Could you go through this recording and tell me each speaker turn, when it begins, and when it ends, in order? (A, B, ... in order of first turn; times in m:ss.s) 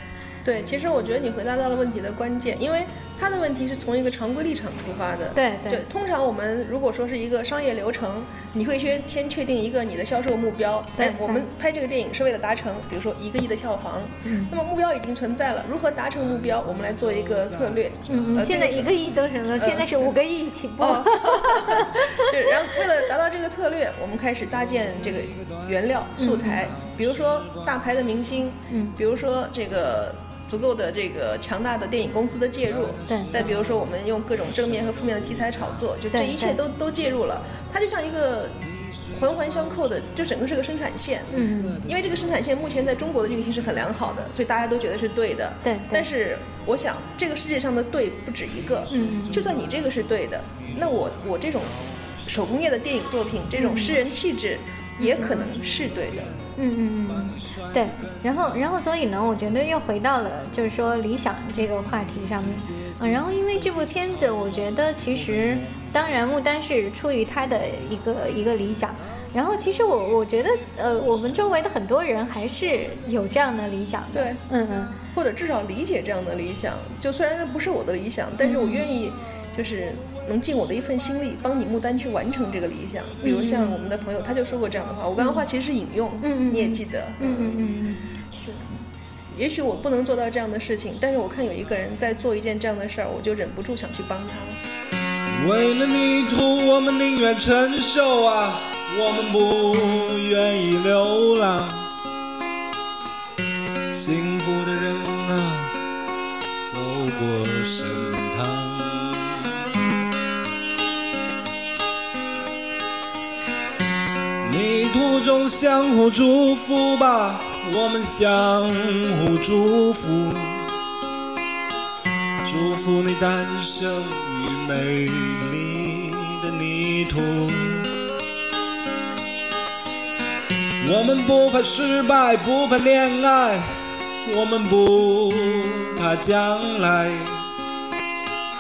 0:00.4-0:18.9 A
0:05.3-0:05.9 B
0:11.0-0:11.5 B
0:14.3-0:14.5 B
0:18.1-0:22.8 B
0:19.6-0:20.2 A
0:20.8-0:56.4 A
0:26.2-0:26.6 B
0:28.7-0:29.0 B
0:32.9-0:34.0 C
0:33.1-0:33.5 B
0:34.8-0:35.4 C
0:36.1-0:36.6 B
0:41.3-0:41.8 B
0:45.6-0:46.1 B
0:48.9-0:49.4 B
0:53.6-0:54.0 B
0:55.0-0:55.5 B
0:56.6-1:15.0 B
0:57.3-0:58.1 C
1:14.1-1:14.4 A
1:15.1-1:27.6 A
1:18.4-1:18.9 B
1:23.2-1:23.8 B
1:25.2-1:25.5 B
1:26.2-1:28.0 B
1:28.4-1:28.7 A
1:29.3-1:34.6 A
1:35.3-1:41.9 C
1:43.9-1:45.7 C
1:46.7-1:49.4 C
1:54.4-2:00.7 C
2:02.4-2:07.9 C
2:10.8-2:13.7 C
2:14.2-2:17.4 C